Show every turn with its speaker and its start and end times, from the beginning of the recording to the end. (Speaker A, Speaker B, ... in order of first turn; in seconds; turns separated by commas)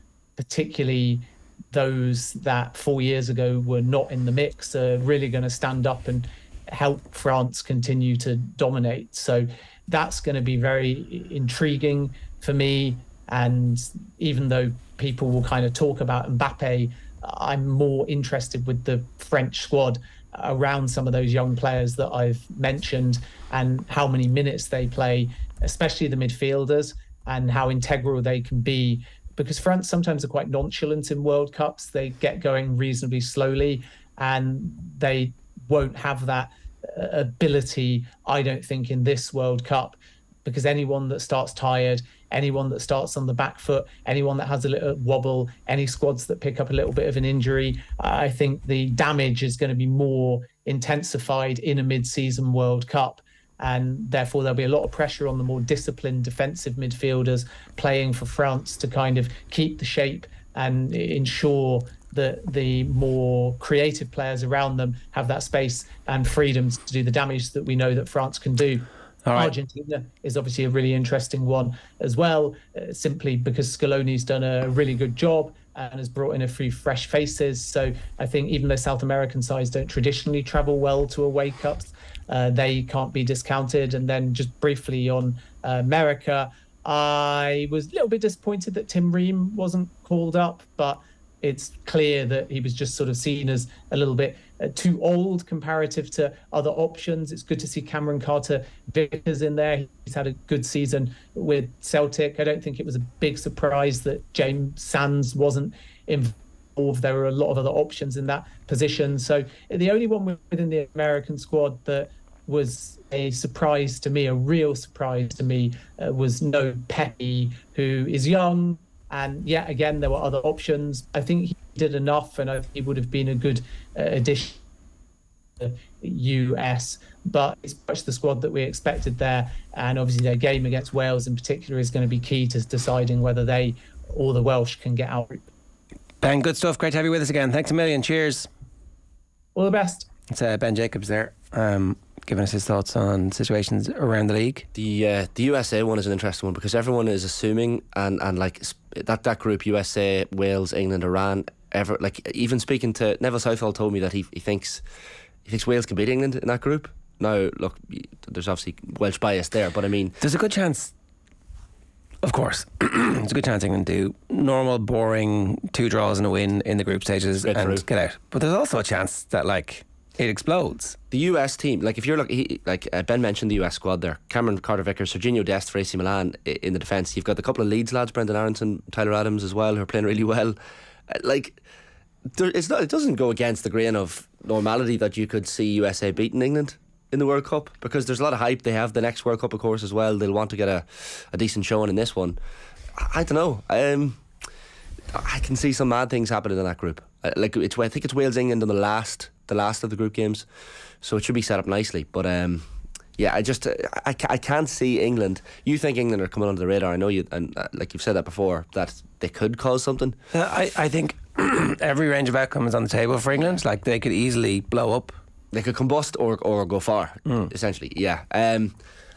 Speaker A: 0.4-124.6, Speaker B: 69.2-69.5, Speaker A: 125.6-135.4, Speaker B: 136.2-138.5, Speaker A: 139.6-140.1, Speaker B: 140.3-144.7, Speaker C: 144.7-154.8, Speaker C: 155.4-160.2, Speaker B: 160.2-160.9, Speaker B: 162.2-171.0, Speaker C: 167.4-167.8, Speaker C: 171.1-180.6, Speaker C: 181.1-181.6, Speaker C: 182.3-192.4, Speaker C: 192.9-194.2, Speaker C: 195.1-200.4, Speaker C: 201.0-210.2, Speaker B: 210.3-215.2, Speaker C: 215.5-218.8, Speaker B: 217.2-217.5